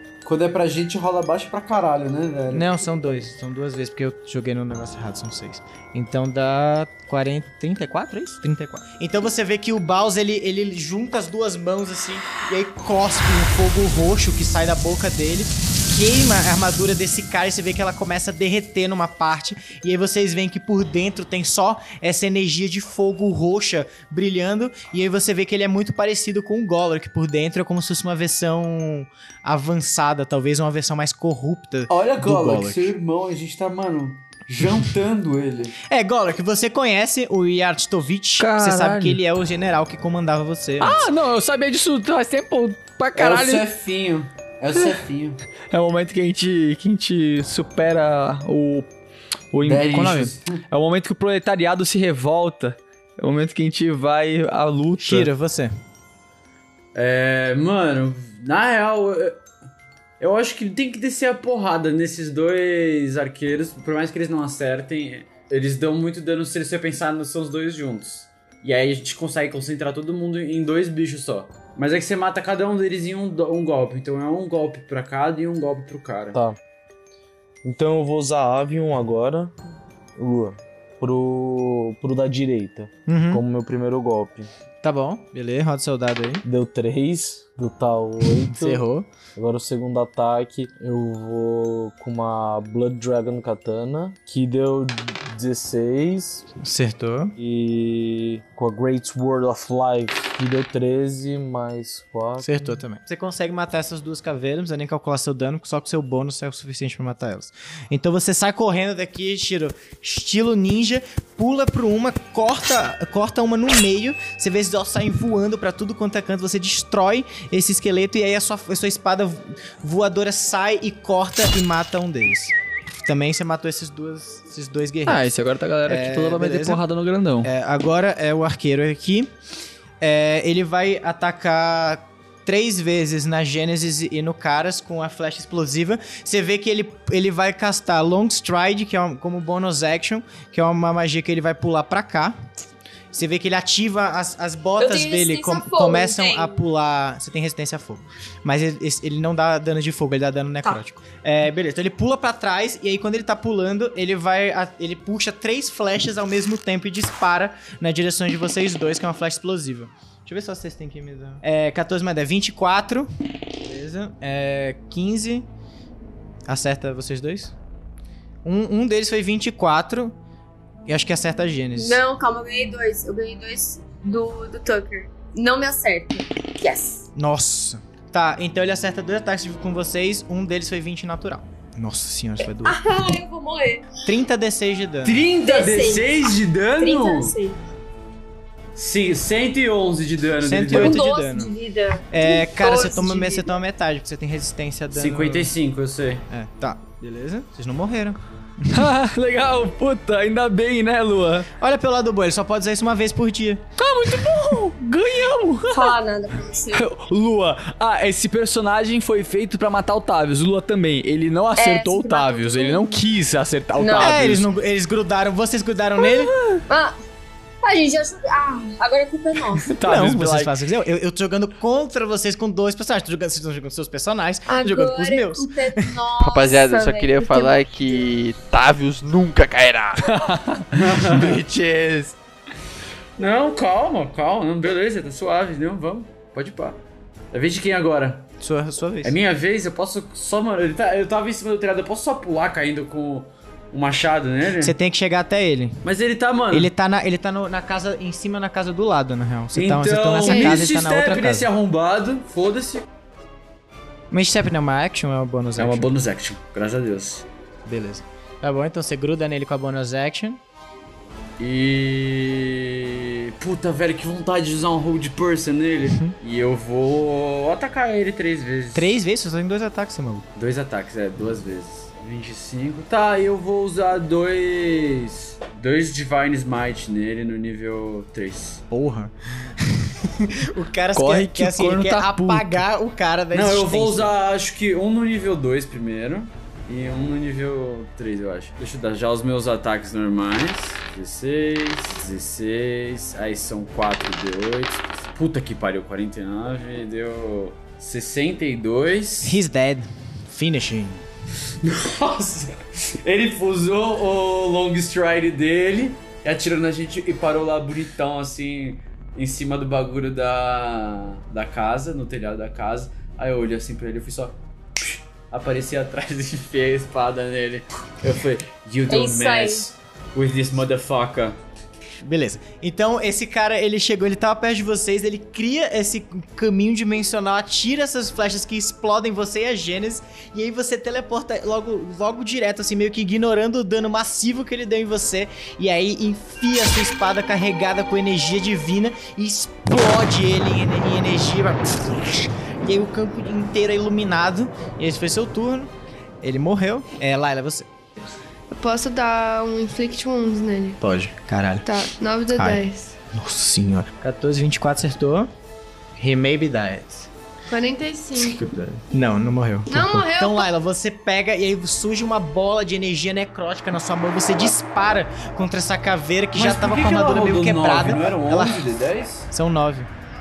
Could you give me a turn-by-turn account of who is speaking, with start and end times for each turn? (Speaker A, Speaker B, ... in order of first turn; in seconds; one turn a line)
Speaker A: 0.2-2.8
Speaker B: 2.5-32.9
Speaker A: 31.9-35.8
Speaker B: 35.9-41.1
Speaker C: 38.4-39.2
Speaker C: 40.8-43.6
Speaker A: 43.2-45.4
Speaker C: 45.7-48.9
Speaker C: 49.5-55.3
Speaker A: 49.6-50.6
Speaker B: 55.0-55.7
Speaker A: 57.0-59.4
Speaker A: 60.2-76.4
Speaker D: 76.3-76.6
Speaker D: 77.6-79.5
Speaker D: 80.2-84.5
Speaker B: 83.1-83.4
Speaker B: 84.8-86.5
Speaker D: 86.5-88.8
Speaker B: 88.4-89.1
Speaker D: 89.4-96.5
Speaker B: 96.6-97.4
Speaker D: 97.4-102.7
Speaker B: 102.4-125.3
Speaker C: 125.1-127.5
Speaker B: 125.9-126.8
Speaker B: 127.4-129.3
Speaker B: 130.0-142.4
Speaker B: 143.1-163.1
Speaker E: 144.8-146.6
Speaker B: 163.6-165.5
Speaker B: 166.5-167.5
Speaker B: 168.4-170.2
Speaker B: 170.9-172.0
Speaker E: 171.8-177.1
Speaker B: 177.2-182.8
Speaker E: 182.6-183.9
Speaker B: 184.1-185.2
Speaker A: 185.0-187.3
Speaker E: 185.4-187.6
Speaker A: 188.8-191.0
Speaker B: 190.4-191.5
Speaker E: 190.7-193.5
Speaker B: 192.1-195.5
Speaker A: 194.9-196.2
Speaker B: 196.3-198.9
Speaker C: 198.7-201.5
Speaker B: 201.6-203.6
Speaker C: 203.8-206.0
Speaker E: 205.7-206.9
Speaker C: 206.7-214.5
Speaker E: 211.6-213.0
Speaker E: 213.8-214.2
Speaker B: 214.0-216.3
Speaker C: 216.1-216.6
Speaker E: 216.7-217.0
Speaker E: 217.6-219.7
Speaker C: 219.7-220.5
Speaker B: 219.8-225.9
Speaker E: 224.5-228.1
Speaker F: 226.2-230.2
Speaker C: 230.0-230.8
Speaker A: 230.7-231.4
Speaker F: 231.0-232.1
Speaker A: 233.2-236.8
Speaker A: 237.3-238.3
Speaker B: 238.4-239.2
Speaker A: 239.0-244.8
Speaker B: 244.6-245.8
Speaker A: 245.8-246.7
Speaker B: 246.5-251.5
Speaker A: 249.6-252.8
Speaker G: 250.2-250.6
Speaker B: 254.1-255.9
Speaker A: 255.6-257.2
Speaker B: 257.7-260.4
Speaker A: 261.4-269.0
Speaker B: 268.7-270.3
Speaker A: 270.4-278.6
Speaker B: 278.7-284.1
Speaker C: 280.9-282.5
Speaker A: 283.3-299.4
Speaker B: 299.2-301.1
Speaker A: 301.6-321.4
Speaker E: 318.9-319.7
Speaker B: 322.0-347.7
Speaker G: 348.5-350.8
Speaker B: 350.8-351.7
Speaker G: 351.6-352.9
Speaker B: 352.4-355.3
Speaker B: 356.0-357.1
Speaker G: 357.5-358.4
Speaker B: 358.2-368.6
Speaker G: 359.7-360.5
Speaker A: 366.4-369.3
Speaker B: 369.3-369.9